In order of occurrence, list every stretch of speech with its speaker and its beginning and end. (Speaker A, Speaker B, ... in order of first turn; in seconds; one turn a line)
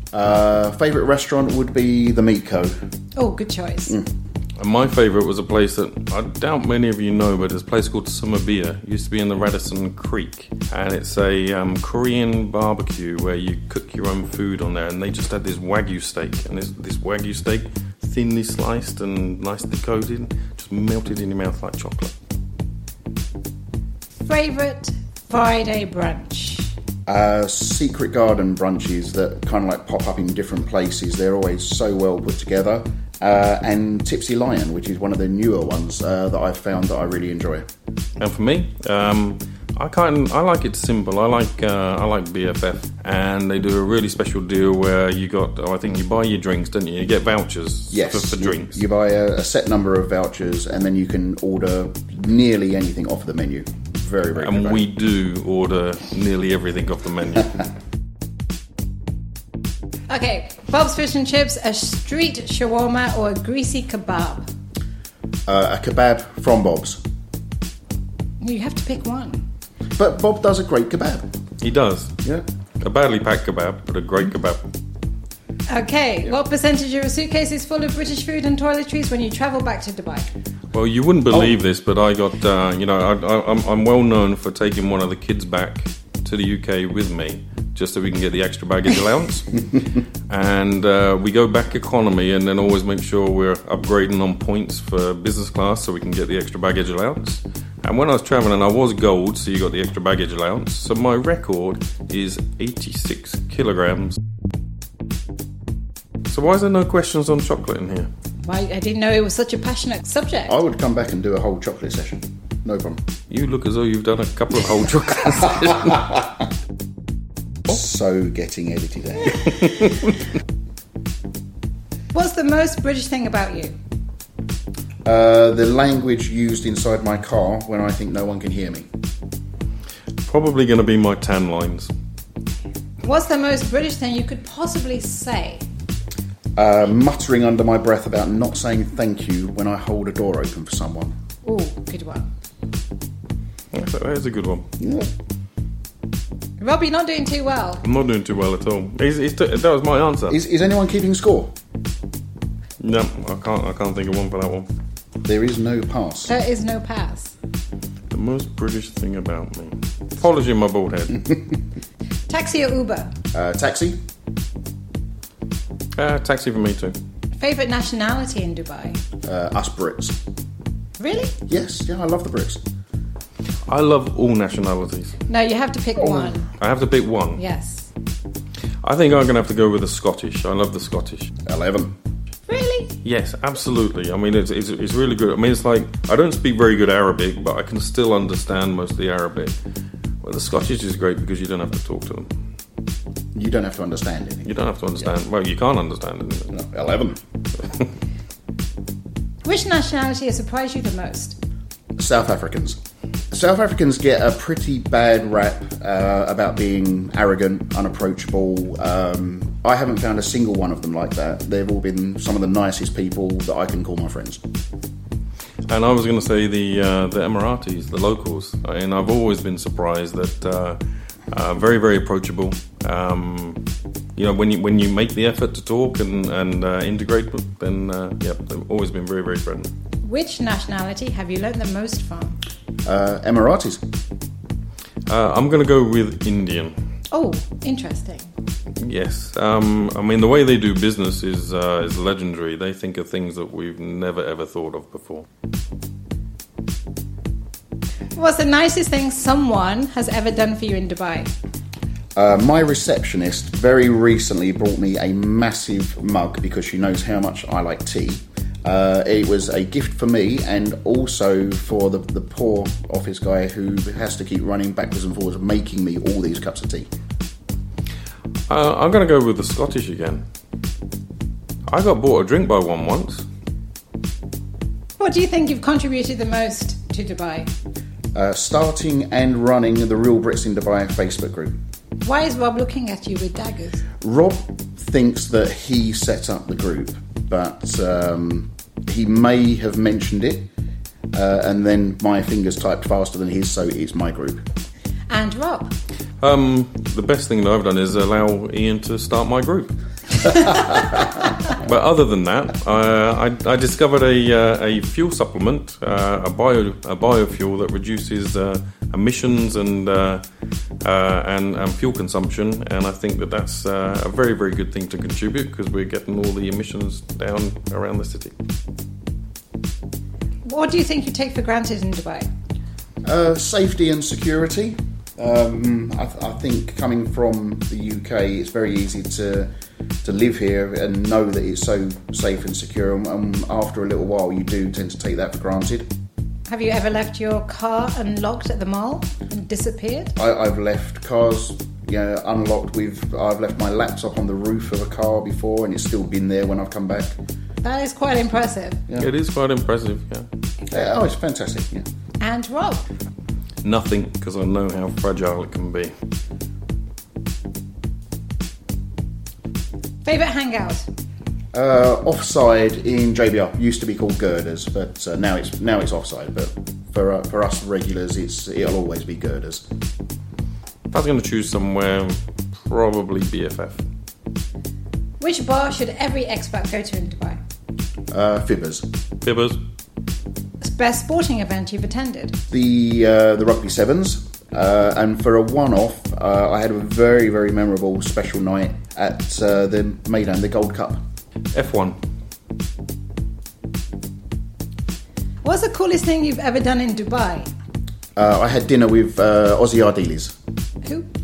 Speaker A: 0.1-2.8
Speaker B: 3.2-4.0
Speaker C: 4.6-22.1
Speaker B: 24.2-26.7
Speaker A: 27.1-37.7
Speaker C: 38.2-48.8
Speaker A: 47.9-54.9
Speaker C: 54.4-57.6
Speaker B: 60.1-64.5
Speaker A: 65.5-67.0
Speaker B: 68.4-69.4
Speaker A: 70.0-71.3
Speaker C: 71.6-72.2
Speaker C: 72.8-74.6
Speaker B: 75.7-80.3
Speaker C: 80.7-89.6
Speaker C: 90.3-104.2
Speaker C: 106.3-108.1
Speaker B: 108.4-110.5
Speaker A: 110.5-113.0
Speaker C: 113.3-116.1
Speaker A: 117.7-119.5
Speaker B: 122.1-123.8
Speaker A: 125.0-128.9
Speaker C: 130.3-131.9
Speaker B: 133.0-135.6
Speaker A: 136.6-141.1
Speaker B: 141.4-142.3
Speaker C: 143.7-144.7
Speaker A: 144.8-145.1
Speaker B: 146.6-147.8
Speaker C: 147.8-150.4
Speaker A: 150.3-151.5
Speaker C: 152.8-154.7
Speaker A: 155.2-156.3
Speaker B: 156.3-157.3
Speaker C: 158.1-161.3
Speaker B: 162.3-163.1
Speaker A: 163.3-164.0
Speaker C: 166.0-167.0
Speaker B: 167.4-169.0
Speaker A: 169.2-170.2
Speaker B: 171.0-171.4
Speaker A: 171.5-172.6
Speaker C: 173.7-175.2
Speaker B: 175.3-176.5
Speaker A: 176.0-176.4
Speaker C: 176.6-177.4
Speaker B: 177.4-177.9
Speaker C: 178.8-181.3
Speaker A: 181.5-181.9
Speaker B: 182.5-183.0
Speaker C: 183.0-189.6
Speaker C: 190.2-192.3
Speaker A: 193.3-194.5
Speaker C: 194.5-196.5
Speaker A: 196.5-197.2
Speaker B: 199.4-201.4
Speaker A: 202.0-202.8
Speaker A: 203.3-214.4
Speaker C: 215.7-220.8
Speaker C: 221.3-223.6
Speaker C: 224.2-229.7
Speaker B: 230.0-232.4
Speaker A: 232.8-233.8
Speaker C: 235.1-236.8
Speaker B: 237.1-238.3
Speaker C: 238.8-245.3
Speaker B: 248.2-251.3
Speaker A: 252.2-266.9
Speaker C: 268.5-270.2
Speaker C: 271.7-273.2
Speaker B: 275.0-277.5
Speaker A: 278.1-281.6
Speaker B: 282.0-283.8
Speaker A: 284.0-290.5
Speaker A: 291.1-294.4
Speaker B: 295.1-295.7
Speaker C: 296.2-300.7
Speaker C: 301.5-310.2
Speaker C: 310.8-318.3
Speaker B: 320.4-322.3
Speaker A: 323.0-329.5
Speaker A: 330.0-335.9
Speaker B: 336.5-340.1
Speaker A: 340.2-347.2
Speaker B: 347.6-348.8
Speaker C: 349.0-350.3
Speaker A: 350.7-351.9
Speaker B: 352.2-352.9
Speaker C: 353.6-355.9
Speaker B: 360.0-360.9
Speaker A: 361.5-369.7
Speaker C: 370.9-373.8
Speaker B: 375.2-377.4
Speaker A: 378.1-378.9
Speaker C: 379.2-379.6
Speaker B: 380.6-382.4
Speaker A: 382.5-391.0
Speaker C: 391.5-392.0
Speaker B: 395.4-397.5
Speaker A: 398.2-400.4